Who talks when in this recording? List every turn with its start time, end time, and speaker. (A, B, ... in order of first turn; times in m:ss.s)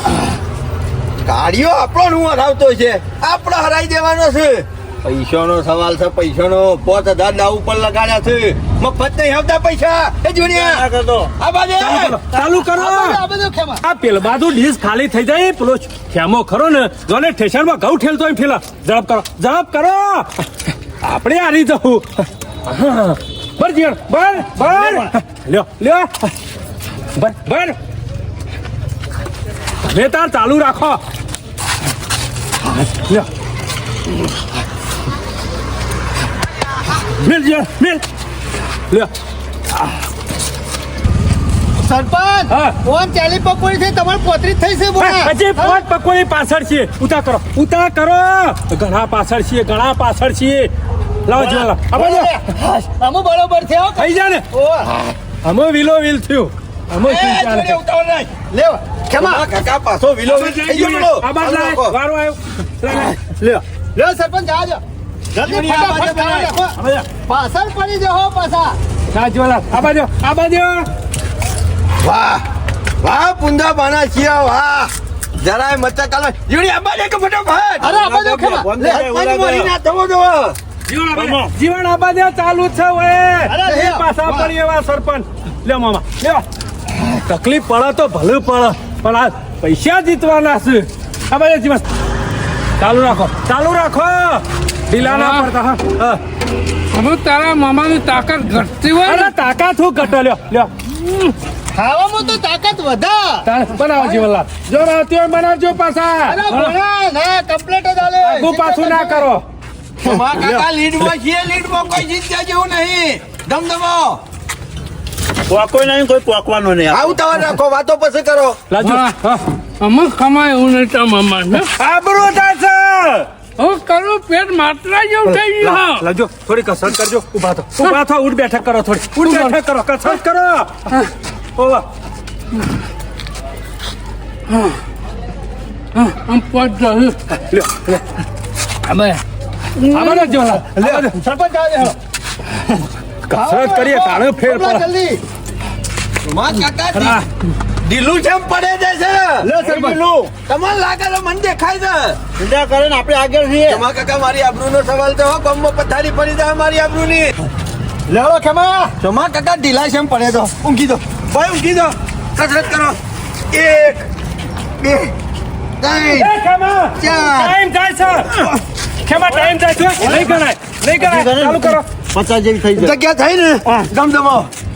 0:01.2-0:10.8 A
0:10.5-0:11.3 B
0:11.4-0:12.2 A
0:11.8-0:13.2 C
0:12.3-0:13.8 D
0:13.8-0:26.3 C
0:27.2-0:27.7 C
0:29.8-0:31.0 C
0:32.7-0:33.2 C
0:37.2-0:38.0 C
0:41.8-0:45.8 D
0:42.5-0:42.7 C
0:45.0-0:50.7 C
0:51.2-0:52.3 C
0:51.4-0:54.9 D
0:54.0-0:54.4 C
0:55.4-0:57.8 C
0:57.0-0:58.3 A
0:58.5-0:59.4 D
0:59.2-1:02.0 A
1:00.2-1:03.2 C
1:03.4-1:04.8 D
1:05.3-1:08.8 D
1:05.4-1:06.5 A
1:09.1-1:10.9 C
1:12.0-1:12.4 A
1:13.0-1:18.0 A
1:17.8-1:18.7 D
1:17.8-1:19.7 B
1:18.8-1:20.6 A
1:20.9-1:26.4 C
1:21.2-1:21.5 B
1:23.5-1:24.5 D
1:27.3-1:31.8 C
1:32.8-1:36.2 C
1:35.0-1:35.5 E
1:36.9-1:39.3 E
1:39.0-1:40.7 C
1:41.7-1:43.4 D
1:43.4-1:46.7 C
1:46.2-1:49.3 D
1:48.2-1:49.4 C
1:50.0-1:54.2 A
1:55.5-1:57.2 B
1:56.9-1:58.6 A
1:58.7-1:59.4 C
1:58.8-1:59.1 E
1:59.8-2:01.7 E
2:01.6-2:03.3 C
2:03.6-2:06.0 E
2:05.2-2:10.9 C
2:09.2-2:09.6 E
2:11.6-2:11.8 C
2:14.5-2:14.8 E
2:15.9-2:17.2 E
2:17.5-2:18.2 C
2:18.9-2:19.2 E
2:19.8-2:20.4 E
2:19.9-2:21.2 C
2:20.6-2:22.0 D
2:23.3-2:24.9 C
2:23.3-2:25.2 D
2:26.2-2:27.2 A
2:26.9-2:27.2 C
2:27.8-2:29.6 A
2:29.4-2:30.3 D
2:29.6-2:30.0 B
2:30.4-2:32.2 A
2:32.4-2:33.8 B
2:33.7-2:37.4 A
2:38.1-2:38.9 D
2:39.0-2:43.0 A
2:43.5-2:44.1 A
2:44.8-2:45.1 A
2:45.8-2:46.3 A
2:46.0-2:51.8 C
2:47.0-2:47.5 A
2:47.0-2:47.5 D
2:50.0-2:50.3 D
2:51.0-2:52.9 B
2:52.8-2:54.5 A